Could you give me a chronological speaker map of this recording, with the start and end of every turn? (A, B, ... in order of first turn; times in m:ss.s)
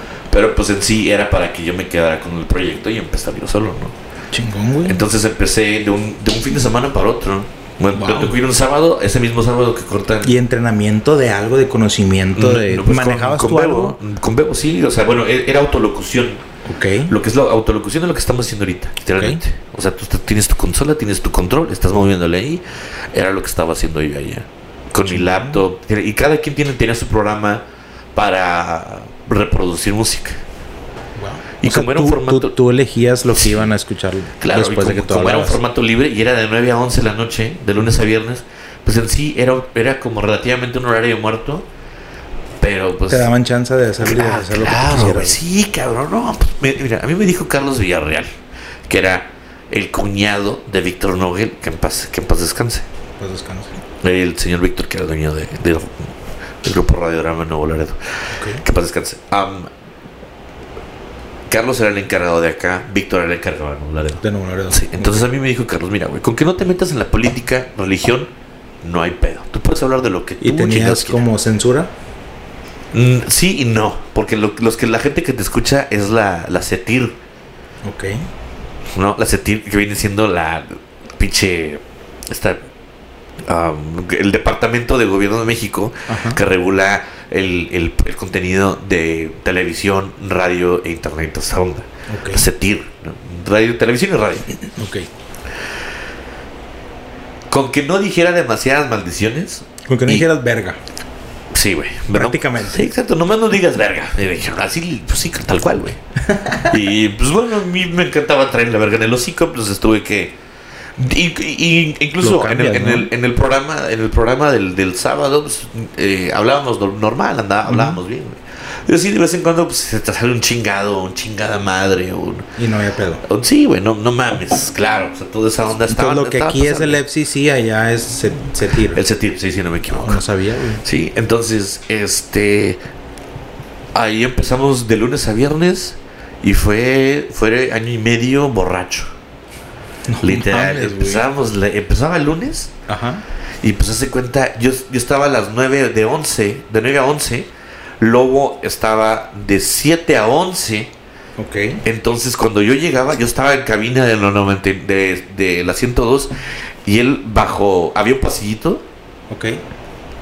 0:00.3-0:04.0 A
0:04.3-0:05.0 B
0:04.8-0:10.3 A
0:08.0-0:08.4 B
0:10.2-0:14.0 B
0:12.3-0:16.4 A
0:16.7-0:17.1 B
0:17.1-0:27.6 A
0:25.1-0:25.6 B
0:28.1-0:30.4 A
0:31.2-0:35.6 B
0:31.6-0:32.6 A
0:33.4-0:33.7 A
0:34.4-0:41.7 A
0:42.6-0:43.3 A
0:43.1-0:45.4 B
0:44.0-0:52.9 A
0:53.2-0:53.8 B
0:54.0-0:59.7 A
0:58.3-0:58.6 B
1:01.5-1:08.3 A
1:04.2-1:05.3 B
1:08.8-1:11.2 A
1:10.4-1:11.9 B
1:12.9-1:17.2 A
1:17.9-1:18.3 B
1:18.9-1:22.6 A
1:23.4-1:34.6 A
1:26.1-1:26.4 B
1:32.1-1:32.5 B
1:34.7-1:35.1 B
1:37.5-1:40.3 A
1:39.9-1:40.8 B
1:41.5-1:46.0 A
1:42.1-1:42.9 B
1:46.2-1:46.8 B
1:46.7-1:50.4 A
1:51.0-2:02.5 A
1:52.2-1:53.1 B
1:57.7-1:58.0 B
2:02.6-2:03.2 B
2:03.2-2:07.0 A
2:05.9-2:09.0 B
2:08.9-2:10.3 A
2:09.9-2:10.8 B
2:10.8-2:12.8 A
2:14.0-2:19.1 A
2:20.1-2:21.3 B
2:20.2-2:22.7 A
2:22.9-2:23.2 B
2:23.6-2:30.9 A
2:31.4-2:31.8 B
2:31.8-2:36.3 A
2:36.8-2:38.8 A
2:39.3-2:39.6 B